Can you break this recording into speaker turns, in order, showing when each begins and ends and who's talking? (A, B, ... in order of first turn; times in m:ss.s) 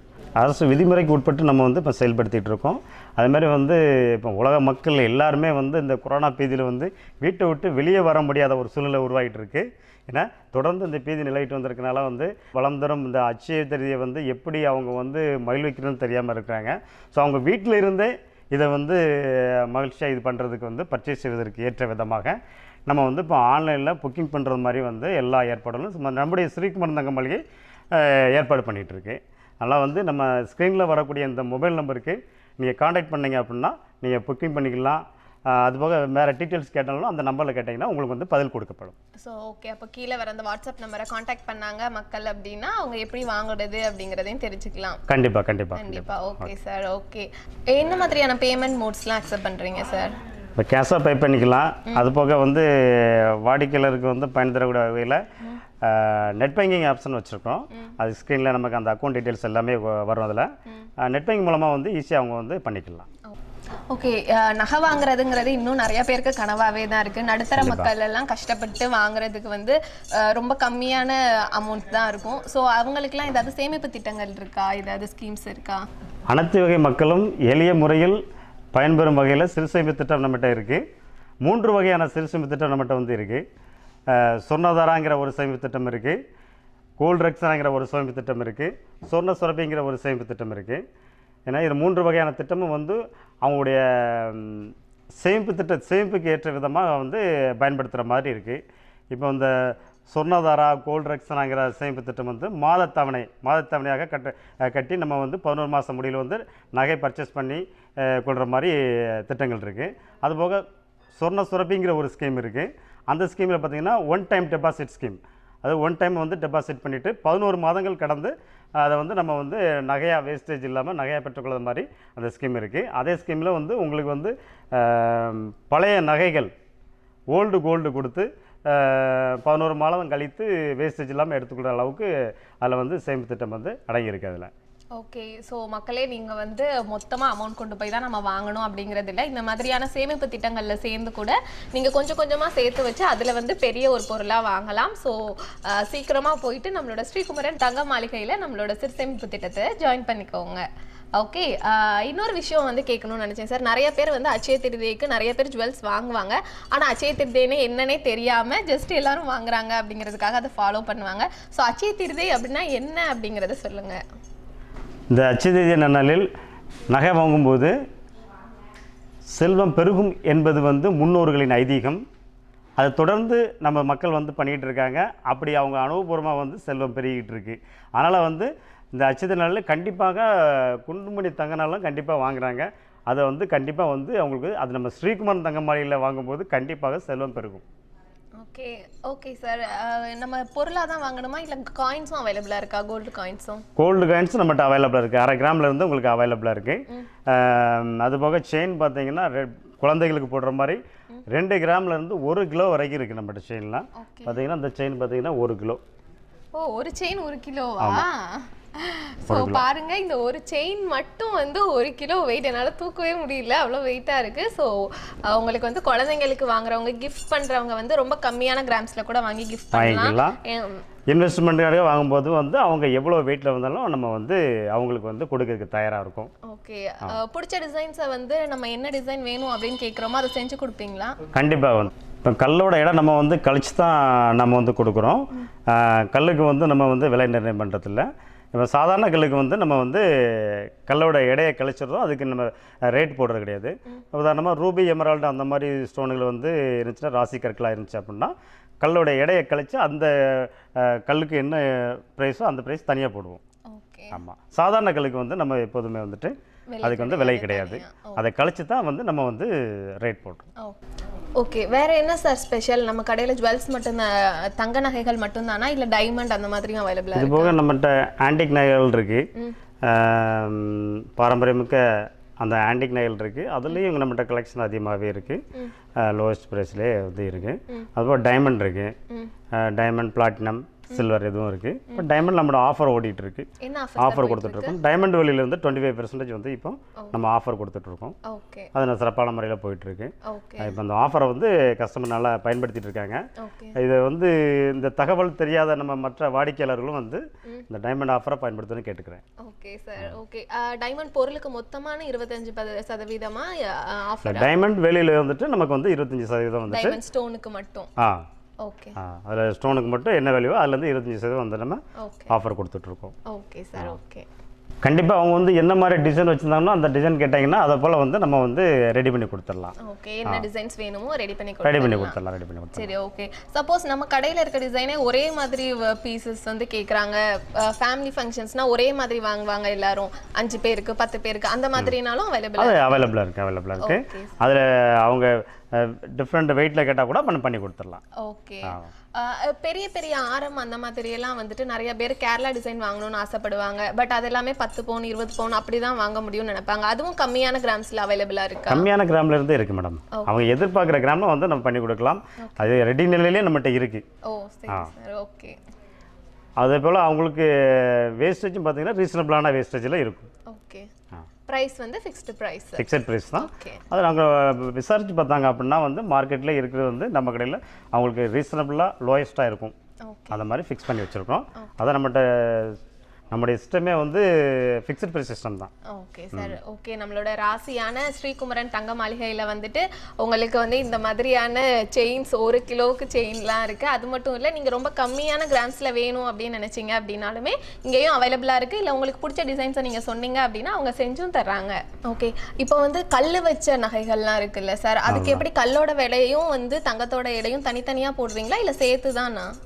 0:00.4-0:39.0 A
0:39.2-0:45.0 B
0:45.1-0:46.5 A
0:45.8-0:50.1 B
0:50.6-0:55.2 A
0:55.8-1:00.5 A
1:01.0-1:03.1 A
1:03.9-1:15.8 B
1:07.6-1:07.9 A
1:16.3-1:18.2 A
1:18.7-1:20.8 A
1:21.4-1:23.4 A
1:24.1-1:26.2 A
1:27.0-1:30.8 A
1:31.5-1:50.6 A
1:51.2-2:06.5 A
2:07.3-2:12.1 A
2:12.6-2:14.5 A
2:15.0-2:30.6 B
2:31.2-2:44.0 B
2:45.1-2:46.3 A
2:46.9-2:47.7 A
2:49.3-2:52.0 A
2:52.8-3:07.6 A
3:08.4-3:13.6 B
3:13.8-3:25.8 A
3:24.0-3:24.4 B
3:26.6-3:40.8 B
3:27.8-3:28.1 A
3:29.3-3:29.7 A
3:39.7-3:40.4 A
3:41.1-3:46.3 A
3:46.4-3:51.2 B
3:51.3-4:13.4 A
4:13.7-4:14.2 B
4:14.1-4:20.5 A
4:16.7-4:18.2 B
4:21.4-4:27.6 B
4:27.2-4:29.3 A
4:29.8-4:35.4 A
4:36.0-4:39.0 A
4:39.5-4:43.5 A
4:43.6-4:44.8 B
4:44.0-4:48.2 A
4:48.2-4:48.7 B
4:48.7-4:53.2 A
4:50.2-4:50.8 B
4:53.4-4:53.8 B
4:53.8-4:59.2 A
4:59.4-5:04.5 B
5:04.2-5:07.0 A
5:06.7-5:07.9 B
5:08.0-5:08.2 A
5:08.6-5:09.0 B
5:09.0-5:13.2 A
5:12.0-5:12.3 B
5:13.3-5:14.3 B
5:14.8-5:19.8 A
5:19.8-5:22.2 B
5:21.6-5:22.9 A
5:22.8-5:33.1 B
5:32.6-5:38.0 A
5:33.8-5:34.4 B
5:38.2-5:48.9 B
5:38.7-5:38.9 A
5:48.7-5:54.0 A
5:52.4-5:52.7 B
5:54.3-5:55.6 B
5:56.6-6:00.3 A
6:00.5-6:00.9 B
6:01.5-6:03.8 B
6:02.8-6:09.7 A
6:10.0-6:10.4 B
6:10.3-6:12.8 A
6:13.3-6:15.7 A
6:15.9-6:39.5 B
6:35.1-6:35.4 A